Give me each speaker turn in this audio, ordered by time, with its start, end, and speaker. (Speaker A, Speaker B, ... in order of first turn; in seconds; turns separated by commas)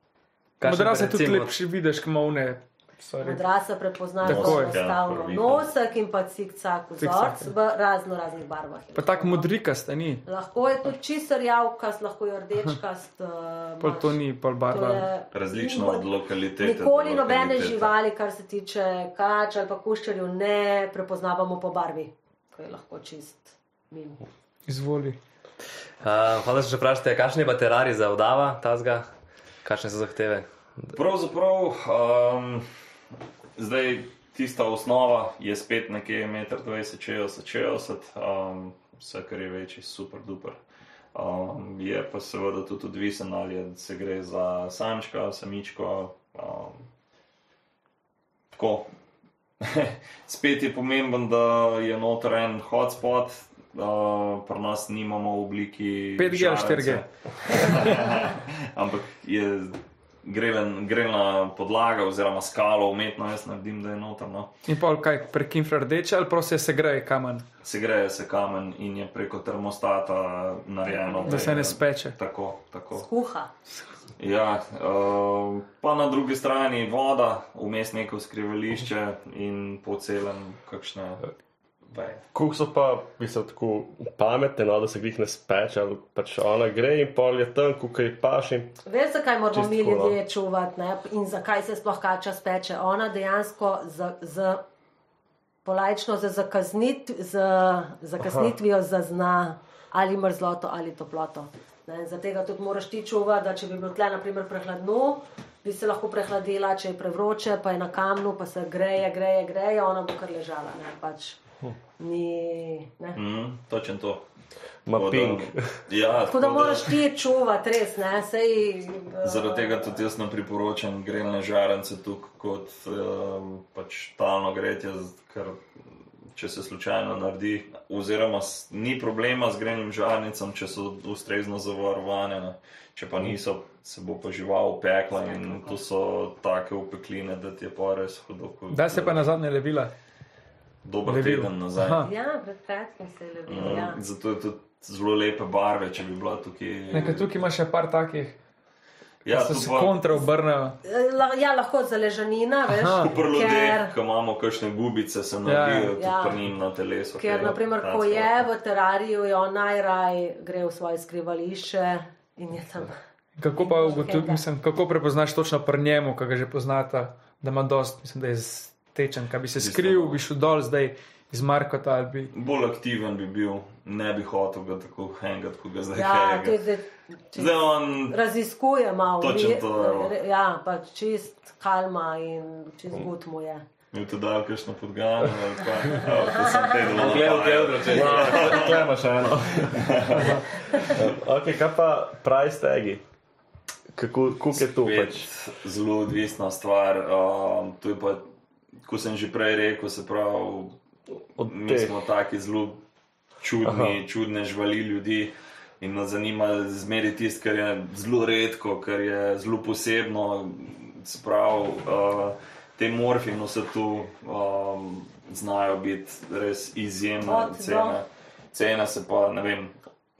Speaker A: 0.6-1.5, Speaker B: 0.6-3.4, Speaker C: 3.2-9.5, Speaker D: 4.2-5.7, Speaker B: 4.2-4.8, Speaker B: 7.0-7.5, Speaker B: 8.9-10.2, Speaker C: 10.2-24.2, Speaker B: 13.8-15.1, Speaker D: 15.3-17.9, Speaker B: 24.7-25.2, Speaker A: 26.0-29.1, Speaker A: 29.6-30.4, Speaker D: 30.9-32.6, Speaker D: 33.5-40.6, Speaker D: 41.1-46.9, Speaker D: 48.5-48.9, Speaker D: 49.6-64.5, Speaker B: 56.2-57.0, Speaker B: 64.7-67.5, Speaker D: 67.6-73.1, Speaker C: 70.8-71.6, Speaker B: 71.2-72.2, Speaker C: 72.9-73.5, Speaker D: 74.2-81.2, Speaker D: 81.8-82.2, Speaker E: 82.3-88.8, Speaker C: 88.8-94.6, Speaker E: 89.5-90.2, Speaker C: 95.6-111.4, Speaker E: 98.2-98.5, Speaker C: 112.0-113.2, Speaker D: 113.1-114.2, Speaker E: 114.8-115.8, Speaker D: 114.9-117.0, Speaker C: 116.3-120.0, Speaker D: 119.2-125.7, Speaker D: 126.3-139.2, Speaker C: 135.2-135.8, Speaker B: 138.7-139.9, Speaker D: 140.8-142.1, Speaker B: 141.1-142.1, Speaker C: 142.0-144.0, Speaker D: 143.5-147.3, Speaker B: 146.9-148.4, Speaker D: 149.2-150.2, Speaker B: 149.3-150.8, Speaker C: 150.8-153.9, Speaker B: 152.7-153.1, Speaker D: 153.0-158.4, Speaker B: 155.4-156.0, Speaker C: 155.9-156.4, Speaker C: 157.2-162.9, Speaker B: 163.4-172.3, Speaker C: 163.6-164.4, Speaker D: 169.6-170.2, Speaker D: 172.3-176.6, Speaker C: 175.9-183.6, Speaker D: 177.3-178.2, Speaker D: 179.2-180.1, Speaker D: 183.9-188.9, Speaker C: 186.0-186.9, Speaker A: 186.9-188.7, Speaker E: 187.9-190.2, Speaker D: 189.7-190.4, Speaker E: 190.8-193.0, Speaker E: 193.9-195.3, Speaker D: 194.5-198.2, Speaker D: 198.8-200.8, Speaker E: 201.3-201.9, Speaker D: 201.4-202.8, Speaker D: 203.4-219.8, Speaker E: 203.7-203.9, Speaker C: 217.2-218.0